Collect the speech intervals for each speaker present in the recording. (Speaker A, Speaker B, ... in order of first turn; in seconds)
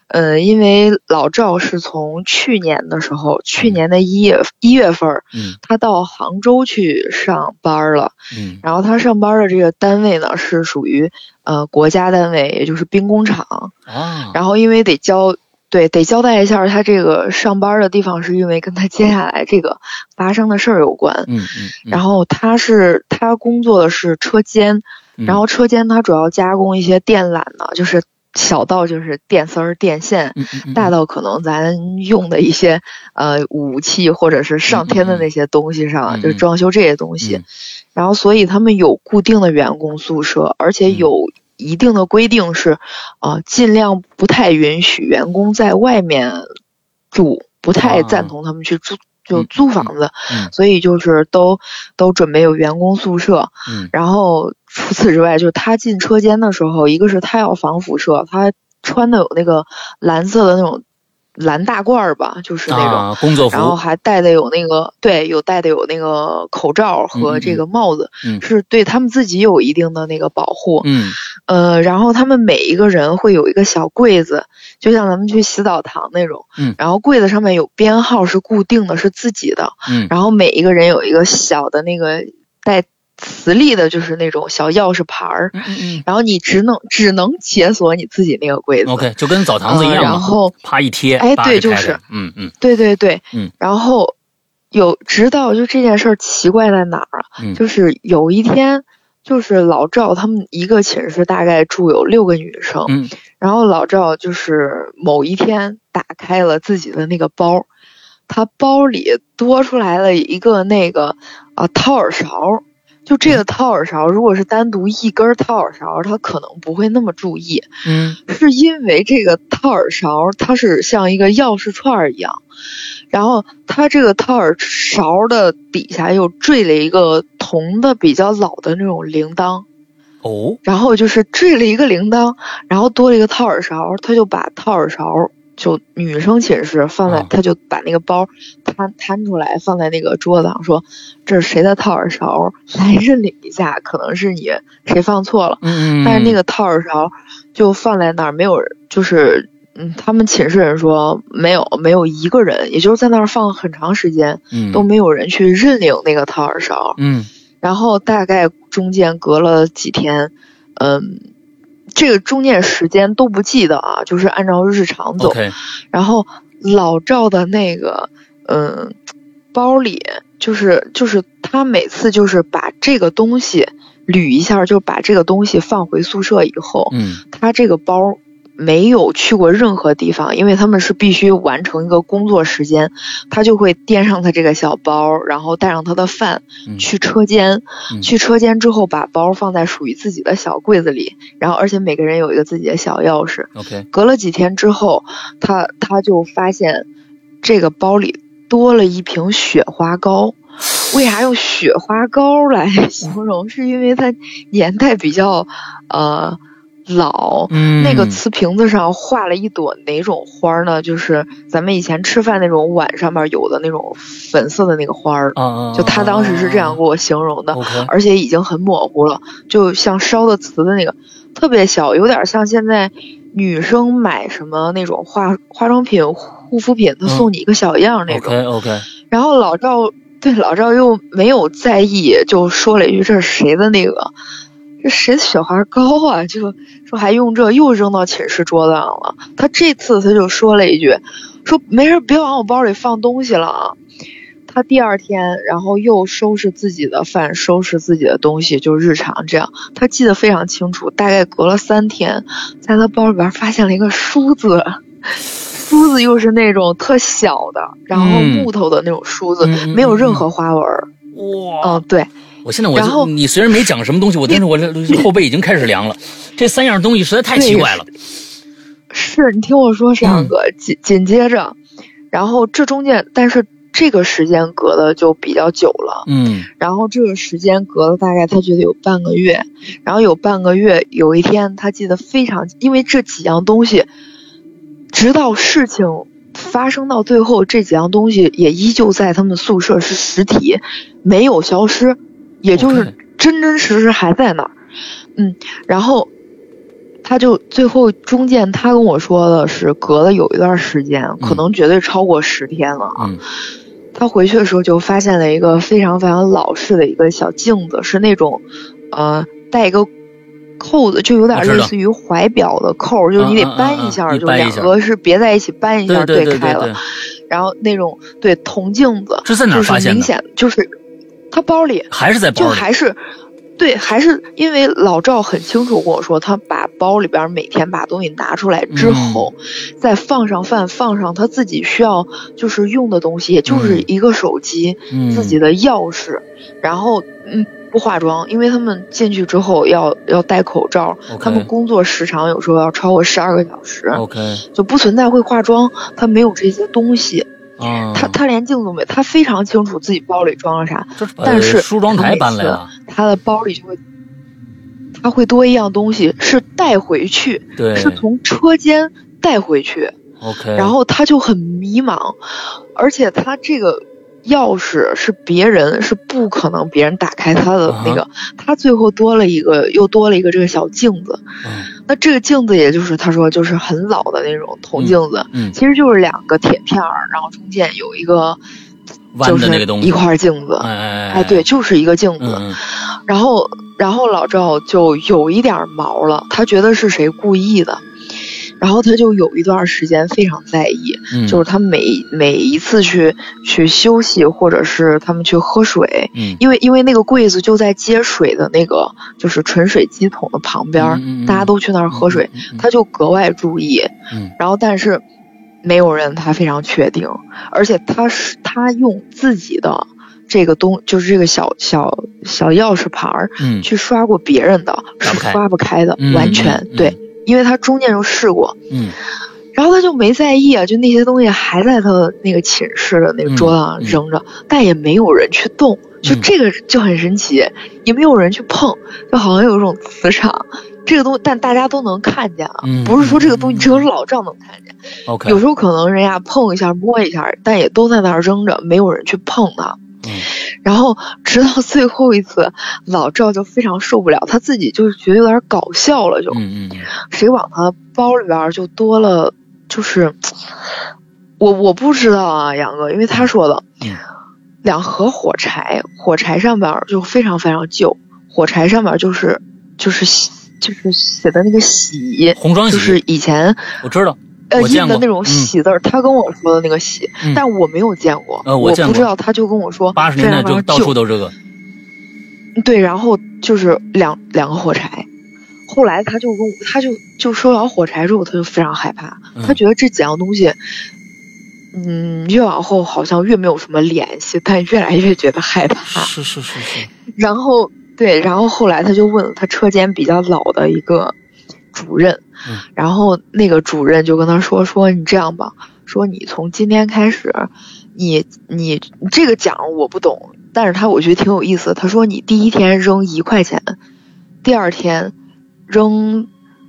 Speaker A: 0.1-13.7, 14.3-21.3, 21.9-37.4, 38.0-46.5, 47.1-60.8, 61.4-89.1, 89.7-90.5, 91.2-92.0, 92.6-94.2, 94.7-107.7, 108.3-122.4, 123.1-129.7, 130.6-157.0, 157.6-161.2, 161.9-165.4, 165.9-168.9, 169.5-196.9, 197.4-228.4, 229.1-234.1, 234.8-243.8, 244.5-254.8, 255.5-260.9, 261.6-262.1, 262.8-263.1, 267.3-267.8, 268.9-271.6, 272.1-276.1, 276.6-283.9, 284.9-294.6, 295.2-296.1, 297.0-303.1, 303.9-309.9, 310.6-316.8, 317.3-320.7, 321.3-323.0, 323.6-344.0, 344.5-347.3, 347.9-353.8, 355.0-360.0, 360.6-362.2, 362.8-371.2, 371.9-378.4, 379.2-387.8, 388.6-405.0, 405.6-418.6, 419.5-434.8, 435.3-439.8, 440.3-446.4, 447.1-450.5, 451.4-453.7, 454.6-463.7, 464.5-470.9, 472.6-475.1, 475.7-480.6, 481.7-486.1, 487.1-491.1, 491.7-503.8, 504.4-505.1, 505.7-506.3
Speaker B: 8.3-8.6, 13.9-14.4, 21.3-22.0, 30.4-30.9, 34.7-35.3, 36.1-36.4, 47.8-48.3, 49.3-50.5, 62.7-63.8, 67.1-67.6, 70.8-71.2, 79.9-80.1, 85.5-86.0, 88.8-92.5, 102.9-103.1, 117.8-118.2, 130.2-130.6, 145.6-146.4, 154.5-154.8, 157.0-157.3, 165.2-165.6, 176.9-177.2, 193.6-193.9, 207.5-208.2, 215.4-216.8, 217.5-217.9, 228.1-228.9, 257.9-258.5, 259.4-260.2, 261.1-261.8, 262.4-267.9, 270.0-270.3, 276.1-276.5, 292.5-292.9, 311.3-311.7, 313.2-314.7, 315.9-316.8, 319.2-320.1, 321.9-322.7, 328.7-329.3, 333.5-333.9, 334.9-335.4, 341.1-341.5, 343.9-344.4, 347.6-348.2, 351.0-352.7, 357.6-358.0, 360.2-360.7, 367.7-368.0, 371.4-371.7, 374.8-375.6, 379.1-380.0, 380.6-381.4, 382.2-382.6, 391.1-391.4, 396.1-396.4, 400.8-402.6, 413.4-413.7, 415.0-415.4, 416.0-417.0, 418.7-419.0, 423.2-424.0, 426.0-426.3, 432.6-433.9, 435.1-435.4, 440.0-440.3, 446.3-446.9, 462.4-463.0, 463.8-465.5, 468.4-469.1, 469.9-471.4, 485.9-486.9